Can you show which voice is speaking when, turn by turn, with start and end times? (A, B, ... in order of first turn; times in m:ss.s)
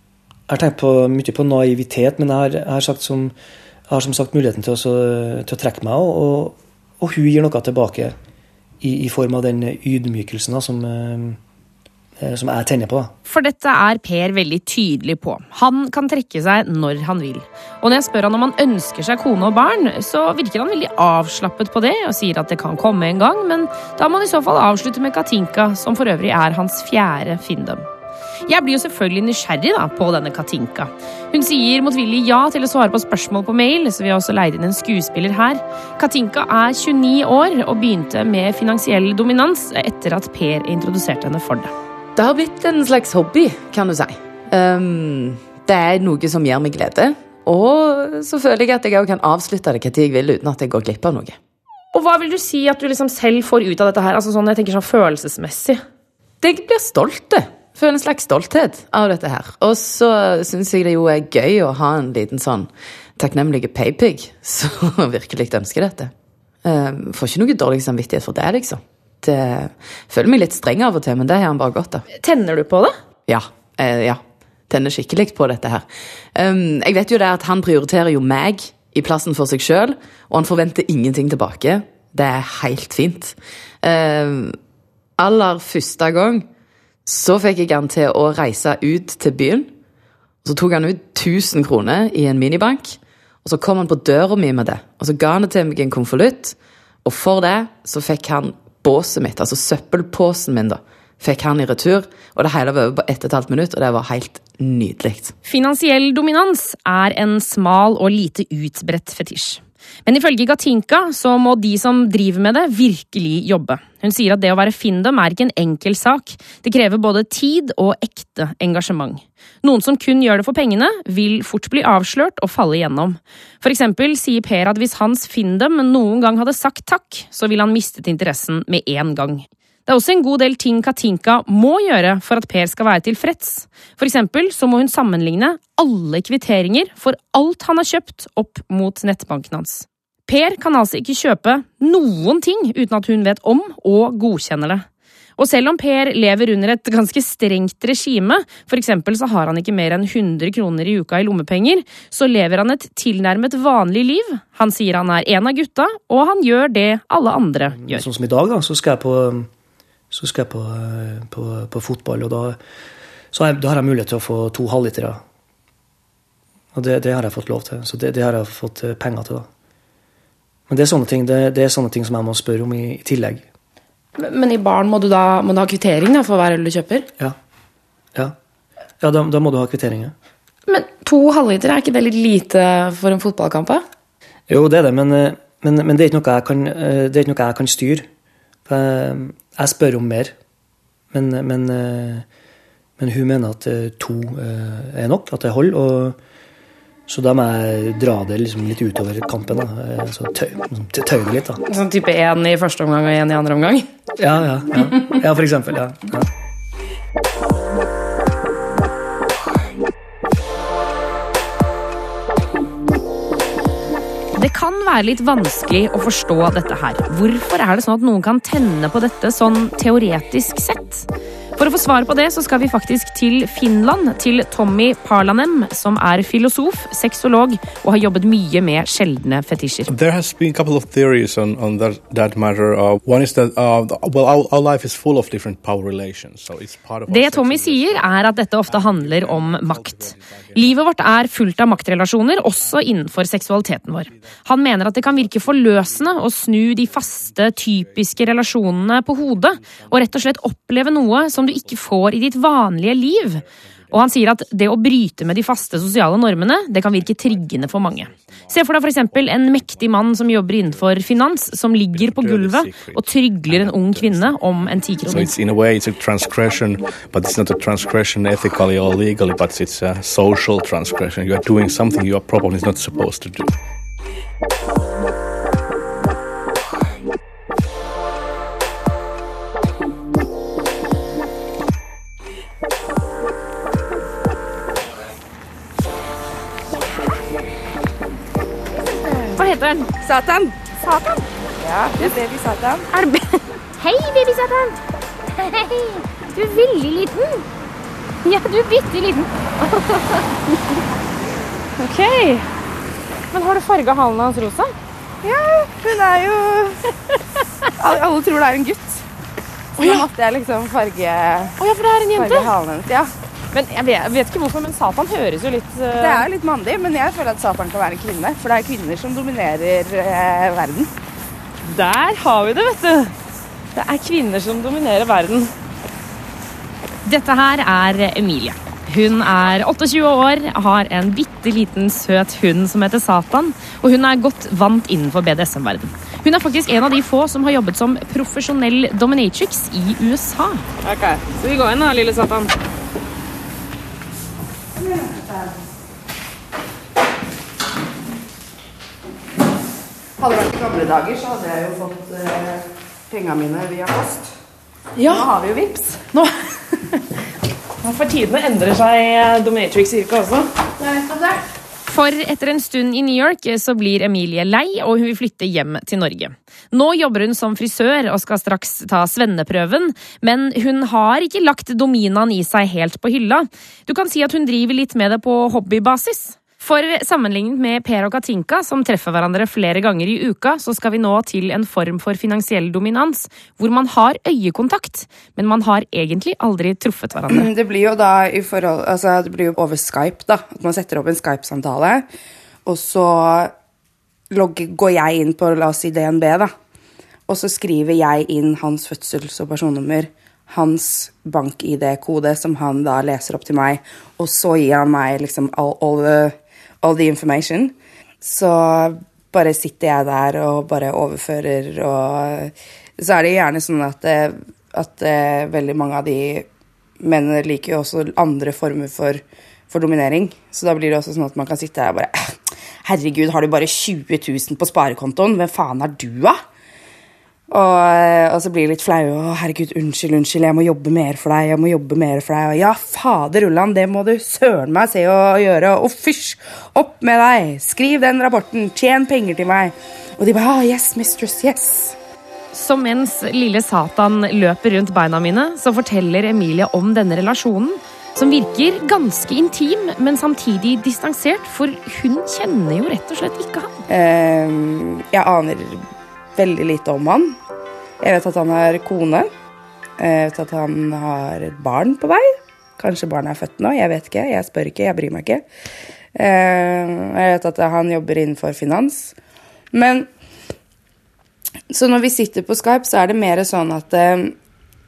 0:00.5-0:03.3 A
0:03.9-0:08.2 A
0:08.8-0:11.4 A
0:12.2-0:13.1 A
0:13.2-0:27.8 B
0:28.5-0:41.7 B
0:42.2-0:51.4 C
0:51.9-0:55.8 D
0:56.4-1:06.1 C
1:06.6-1:12.0 C
1:12.1-1:13.0 D
1:13.3-1:24.6 C
1:25.2-1:26.5 C
1:27.0-1:29.7 C
1:30.4-1:45.3 C
1:45.4-2:24.8 B
2:25.4-2:38.0 B
2:37.7-2:39.5 A
2:40.1-2:42.6 A
2:43.3-2:45.2 A
2:46.7-2:49.5 A
2:50.7-2:53.4 A
2:54.2-2:57.1 D
2:59.0-3:00.1 A
3:00.7-3:03.8 D
3:04.5-3:08.1 A
3:08.6-3:10.3 A
3:11.1-3:12.2 A
3:13.0-3:16.2 A
3:17.1-3:21.6 A
3:21.7-3:23.9 D
3:24.2-3:26.3 A
3:34.3-3:49.9 B
3:49.8-4:01.0 E
3:57.1-4:25.4 B
4:04.0-4:04.4 E
4:04.9-4:05.9 E
4:06.9-4:08.5 E
4:09.3-4:10.4 E
4:11.0-4:11.9 E
4:13.0-4:14.3 E
4:16.9-4:33.5 E
4:48.7-4:49.4 F
4:49.4-4:49.9 B
4:50.0-4:50.7 F
4:50.8-4:51.2 B
4:51.6-4:52.9 F
4:52.9-4:54.8 B
4:55.4-4:57.4 B
4:58.2-4:59.3 B
5:01.8-5:02.5 B
5:03.3-5:04.7 B
5:05.2-5:06.8 F
5:07.8-5:09.0 F
5:09.8-5:11.5 F
5:09.8-5:10.0 B
5:11.6-5:12.5 B
5:12.2-5:13.1 F
5:13.5-5:16.2 B
5:15.9-5:20.9 F
5:21.6-5:23.1 B
5:23.7-5:25.5 B
5:27.0-5:40.6 B
5:41.3-5:42.5 B
5:44.8-5:45.6 F
5:50.2-5:54.3 F
5:55.0-5:56.0 F
5:58.0-6:00.4 D
6:00.8-6:01.4 F
6:01.8-6:27.5 B
6:27.3-6:32.0 F
6:32.6-6:33.5 F
6:34.3-6:36.5 F
6:37.3-6:56.5 F
6:57.0-7:06.4 F
7:07.5-7:21.9 F
7:22.5-7:33.7 B
7:33.9-7:35.8 F
7:36.4-7:37.4 F
7:38.0-7:39.3 F
7:40.0-7:45.4 F
7:46.1-7:49.1 F
7:49.7-7:50.1 F
7:51.7-7:54.3 F